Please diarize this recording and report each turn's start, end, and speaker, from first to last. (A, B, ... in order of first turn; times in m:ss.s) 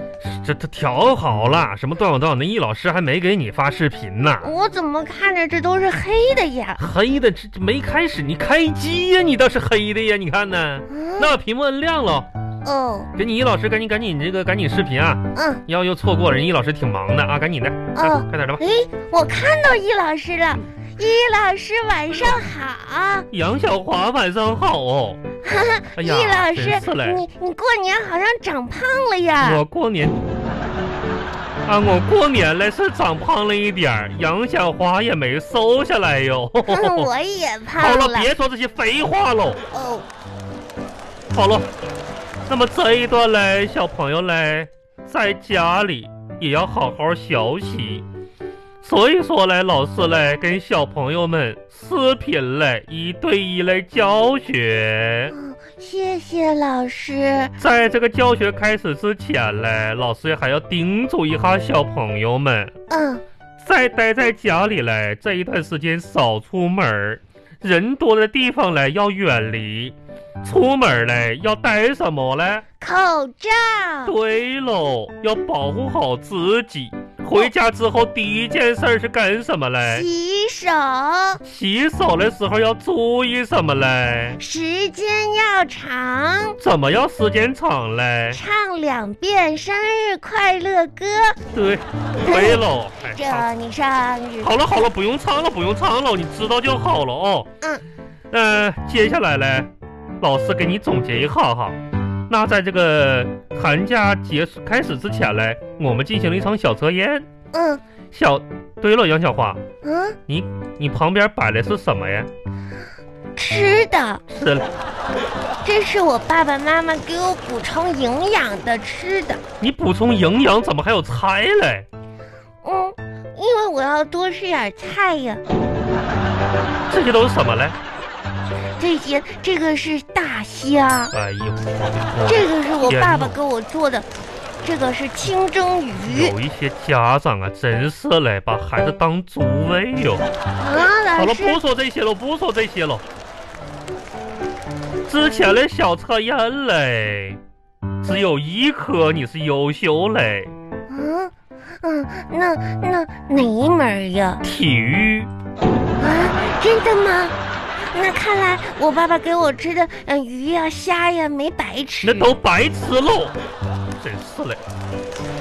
0:00.2-0:04.5 A
0:04.4-0:06.8 B
0:06.8-0:12.3 A
0:10.9-0:11.3 B
0:12.6-0:13.1 B
0:13.2-0:18.6 A
0:15.3-0:15.6 B
0:17.9-0:23.3 B
0:23.3-0:25.2 A
0:25.4-0:29.6 B
0:26.0-0:27.2 A
0:29.4-0:30.2 A
0:31.6-0:37.1 A
0:36.6-0:38.3 B
0:37.8-0:39.6 A
0:39.7-0:40.0 B
0:41.3-0:41.7 A
0:42.5-0:48.0 A
0:48.8-0:55.3 A
0:55.3-0:57.5 B
0:57.6-1:02.7 A
1:02.9-1:03.2 B
1:03.6-1:12.6 A
1:12.8-1:14.1 B
1:14.0-1:20.0 A
1:19.8-1:21.4 B
1:21.4-1:24.4 A
1:24.4-1:26.6 B
1:26.6-1:28.4 A
1:28.3-1:31.4 B
1:31.5-1:33.5 A
1:32.2-1:34.9 B
1:34.4-1:37.5 A
1:38.3-1:41.8 A
1:42.3-1:47.2 A
1:47.5-1:47.8 B
1:48.1-1:49.6 A
1:49.8-1:50.2 B
1:50.3-1:52.3 A
1:53.4-1:54.2 B
1:54.3-1:54.7 A
1:55.6-1:59.4 B
1:59.6-2:01.8 A
2:02.6-2:05.4 B
2:06.9-2:07.8 A
2:08.8-2:11.1 B
2:11.1-2:13.4 A
2:12.3-2:14.0 B
2:14.6-2:16.3 B
2:16.0-2:20.2 A
2:20.6-2:21.6 B
2:21.1-2:23.0 A
2:25.1-2:27.4 A
2:28.0-2:30.5 A
2:30.9-2:34.4 B
2:34.4-2:35.3 A
2:36.0-2:37.4 B
2:37.9-2:42.3 B
2:42.0-2:43.4 A
2:44.0-2:44.6 A